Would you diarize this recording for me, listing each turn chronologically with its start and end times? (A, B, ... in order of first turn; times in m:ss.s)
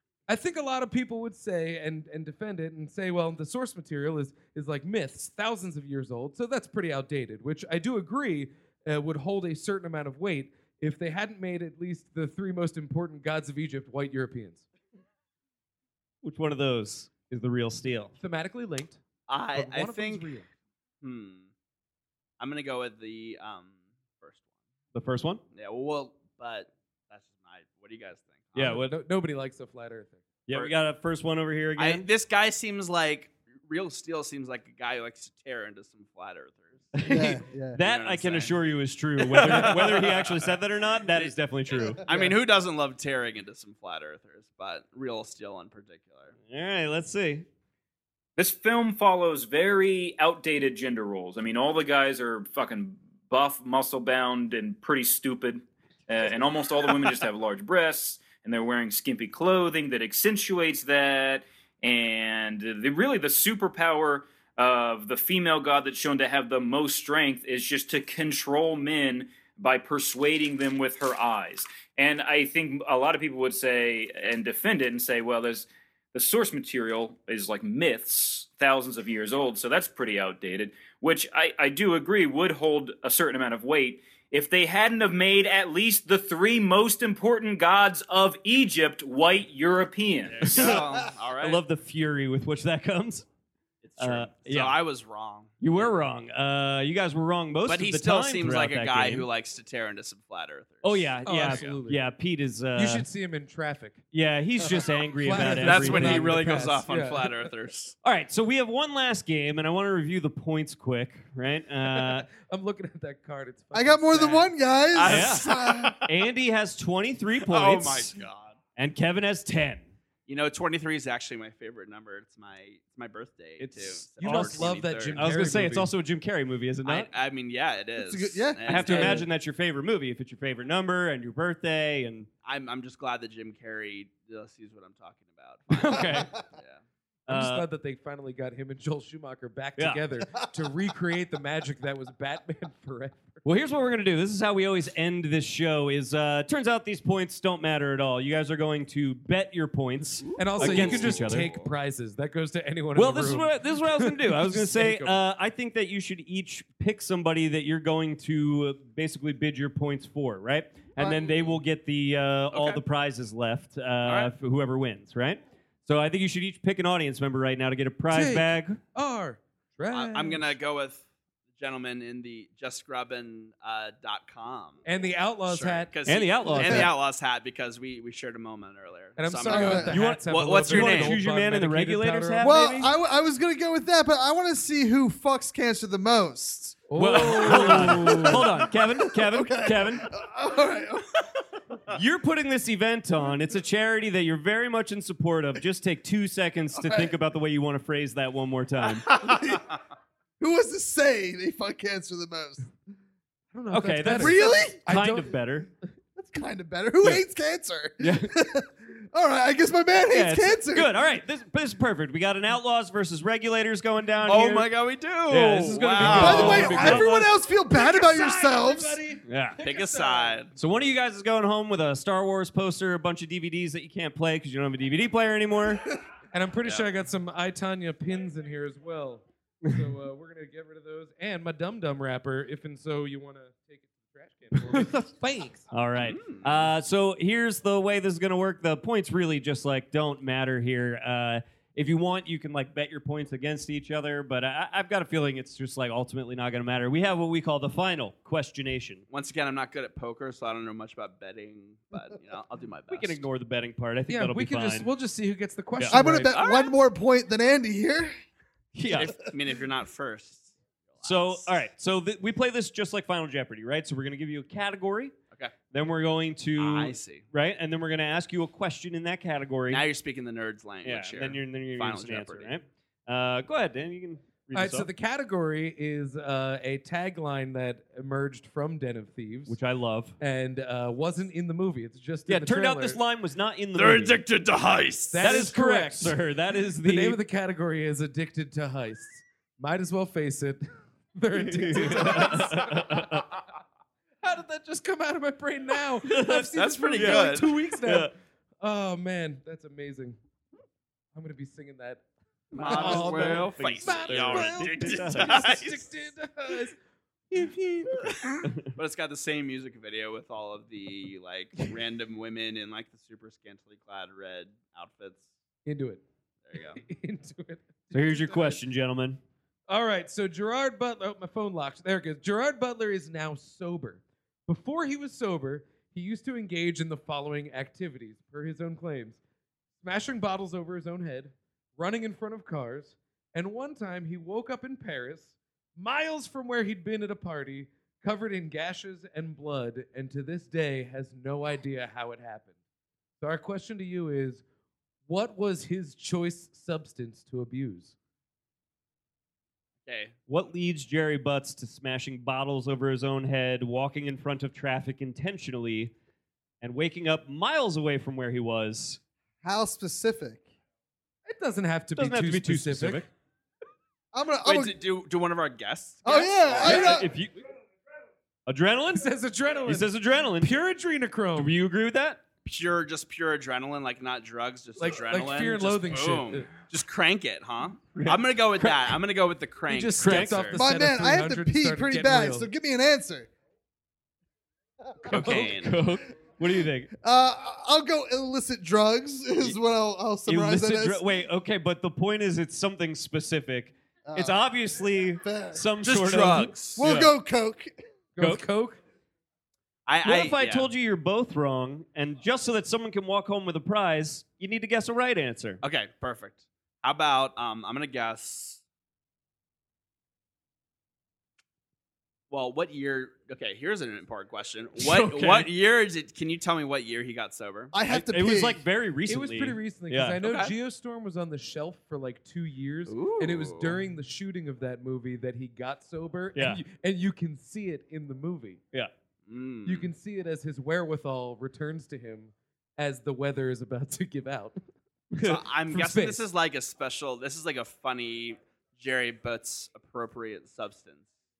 0:00.3-0:14.6 A
0:16.2-0:18.1 B
0:18.2-0:19.0 A
0:19.3-0:20.3 C
0:19.5-0:20.5 A
0:21.0-0:21.5 C
0:22.4-0:24.4 C
0:24.9-0:25.4 B
0:25.5-0:28.8 C
0:28.6-0:30.2 A
0:30.5-0:32.1 B
0:31.8-0:36.9 C
0:36.9-0:42.0 B
0:37.0-0:37.8 D
0:37.8-0:38.6 C
0:39.2-0:40.6 C
0:42.0-0:46.3 C
0:46.5-0:47.4 B
0:48.4-1:30.7 E
1:30.3-1:31.6 C
1:31.4-1:33.2 B
1:33.8-1:35.9 C
1:34.0-1:34.8 B
1:35.6-1:39.3 B
1:37.7-1:41.7 C
1:40.8-1:43.0 B
1:41.2-1:42.0 A
1:42.8-1:44.0 A
1:44.1-1:46.6 B
1:44.6-1:47.5 A
1:45.3-1:47.9 C
1:48.0-1:52.3 B
1:51.9-1:54.5 A
1:53.7-1:56.0 D
1:54.9-1:56.0 C
1:55.0-1:55.5 B
1:56.0-1:58.2 B
1:57.4-1:58.5 C
1:58.8-1:59.8 B
2:00.3-2:05.3 C
2:03.6-2:07.1 B
2:03.6-2:05.9 A
2:06.8-2:09.2 C
2:08.0-2:09.1 D
2:08.7-2:12.3 B
2:08.8-2:09.2 A
2:12.4-2:16.8 C
2:15.7-2:16.3 B
2:17.3-2:23.4 A
2:17.3-2:17.6 B
2:19.8-2:20.0 B
2:23.4-2:31.5 B
2:30.2-2:31.7 C
2:30.4-2:35.2 A
2:33.0-2:48.8 B
2:42.5-2:42.8 C
2:44.0-2:44.3 C
2:48.1-2:50.5 A
2:49.9-2:51.0 C
2:51.5-2:54.8 C
2:54.8-2:55.9 A
2:55.5-3:01.2 C
2:56.1-2:56.9 B
2:56.4-2:56.9 A
2:59.2-3:02.7 A
2:59.5-2:59.9 D
2:59.9-3:02.9 B
3:02.4-3:11.2 D
3:06.9-3:08.4 A
3:07.0-3:10.1 B
3:11.9-3:19.1 B
3:16.7-3:17.1 D
3:19.1-3:19.6 D
3:20.4-3:22.7 D
3:23.5-3:25.4 A
3:23.7-3:25.7 B
3:24.1-3:24.8 D
3:26.2-3:30.9 D
3:28.0-3:28.3 B
3:30.1-3:34.7 B
3:34.2-3:36.9 C
3:35.3-3:37.3 B
3:36.0-3:39.0 D
3:36.0-3:40.4 A
3:39.2-3:39.6 B
3:39.6-3:40.5 C
3:40.6-3:45.8 B
3:46.3-3:55.6 A
3:55.7-4:09.0 B
3:56.0-3:56.7 C
4:09.1-4:13.2 C
4:12.9-4:14.9 B
4:14.1-4:16.3 A
4:15.9-4:18.1 D
4:16.3-4:16.7 C
4:18.7-4:19.1 B
4:18.9-4:21.5 C
4:21.0-4:25.1 B
4:25.7-4:29.8 B
4:26.6-4:27.2 C
4:29.7-4:32.5 C
4:30.8-4:34.9 B
4:34.5-4:39.6 A
4:39.5-4:40.2 B
4:40.2-4:43.0 A
4:42.3-4:44.2 B
4:43.8-4:45.4 C
4:45.1-4:46.2 A
4:45.2-4:47.2 B
4:46.8-4:50.6 A
4:51.1-4:53.1 A
4:51.3-4:53.2 B
4:54.2-5:00.2 A
4:56.0-4:58.1 B
4:56.5-4:57.6 C
5:01.1-5:02.0 A
5:02.5-5:05.8 C
5:02.5-5:05.6 B
5:02.5-5:06.7 A
5:07.3-5:08.2 A
5:08.1-5:15.2 C
5:08.4-5:08.7 B
5:15.6-5:16.0 A
5:16.5-5:16.8 C
5:16.7-5:18.6 A
5:17.9-5:19.2 B
5:19.7-5:29.2 A
5:29.8-5:42.5 A
5:43.2-5:44.4 A
5:45.1-5:47.9 A
5:49.8-5:50.1 C
5:50.3-5:55.9 B
5:56.6-5:59.0 B
5:59.4-6:00.4 D
6:01.2-6:03.0 A
6:02.0-6:03.1 B
6:04.1-6:04.8 D
6:04.4-6:07.0 C
6:06.0-6:07.1 D
6:06.6-6:07.4 B
6:08.5-6:09.1 B
6:08.9-6:11.5 A
6:09.6-6:10.5 B
6:11.3-6:12.2 B
6:12.4-6:20.6 C
6:14.8-6:16.5 A
6:17.9-6:18.7 B
6:19.7-6:22.5 A
6:20.0-6:20.5 B
6:20.5-6:23.3 D
6:25.0-6:25.5 A
6:25.0-6:26.9 B
6:25.1-6:25.8 C
6:27.0-6:31.0 D
6:30.3-6:37.1 B
6:34.1-6:34.4 D
6:35.2-6:35.7 D
6:35.8-6:36.8 C
6:36.8-6:37.7 D
6:38.2-6:38.8 A
6:38.2-6:38.4 B
6:39.8-6:40.7 C
6:40.0-6:45.6 B
6:45.6-6:48.6 C
6:52.3-6:57.7 C
6:54.9-6:55.4 B
6:57.7-6:58.6 D
6:57.9-7:00.2 B
6:59.1-7:08.6 A
7:00.2-7:00.5 C
7:02.9-7:03.8 C
7:06.3-7:06.6 B
7:09.3-7:09.9 C
7:09.6-7:14.6 A
7:15.2-7:16.2 A
7:15.2-7:21.0 C